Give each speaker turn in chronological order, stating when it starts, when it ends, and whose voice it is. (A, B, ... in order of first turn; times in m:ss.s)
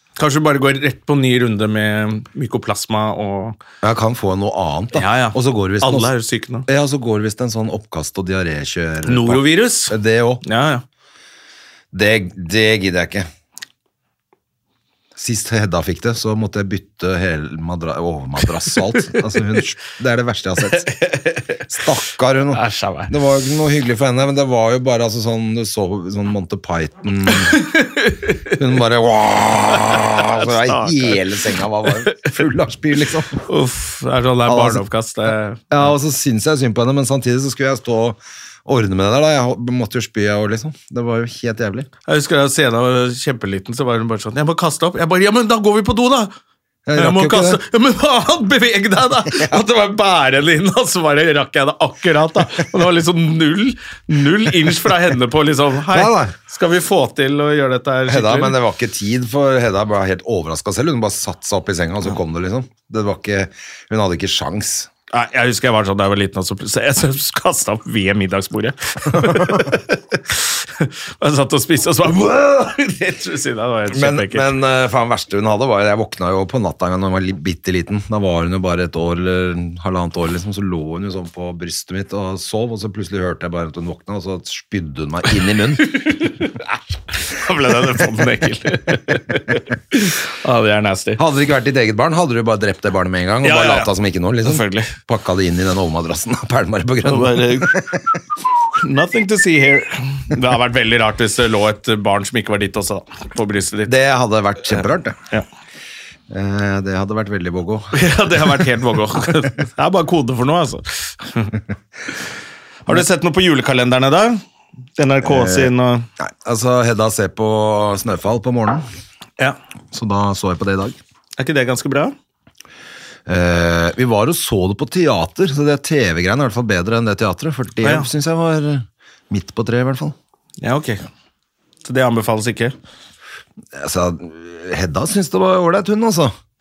0:00.2-0:03.6 A
0:03.8-0:06.1 B
0:04.9-0:06.7 A
0:06.7-0:10.4 B
0:09.0-0:10.8 A
0:11.9-0:13.3 B
0:15.2-0:20.9 B
0:20.8-0:21.6 A
0:21.7-0:27.6 B
0:22.5-0:23.1 A
0:27.3-0:28.6 A
0:28.5-0:33.4 B
0:29.7-0:31.2 A
0:33.4-0:35.6 A
0:34.4-0:34.8 B
0:35.7-0:41.9 B
0:42.0-0:46.3 A
0:46.8-0:47.6 B
0:47.0-0:58.6 A
0:55.9-0:56.3 B
0:58.1-1:04.9 B
1:05.1-1:14.5 A
1:09.1-1:09.7 B
1:13.9-1:25.9 B
1:25.8-1:31.2 A
1:31.2-1:38.2 B
1:33.4-1:33.9 A
1:34.4-1:34.9 A
1:37.0-1:37.8 A
1:38.8-1:43.9 A
1:43.8-1:45.2 B
1:46.3-1:48.6 B
1:47.9-1:51.6 A
1:52.8-1:54.4 A
1:55.0-1:56.1 A
1:55.2-1:58.8 B
1:59.9-2:01.0 B
2:01.4-2:02.1 A
2:03.2-2:10.1 B
2:07.8-2:08.1 A
2:10.6-2:11.0 A
2:11.8-2:12.7 A
2:13.7-2:16.3 B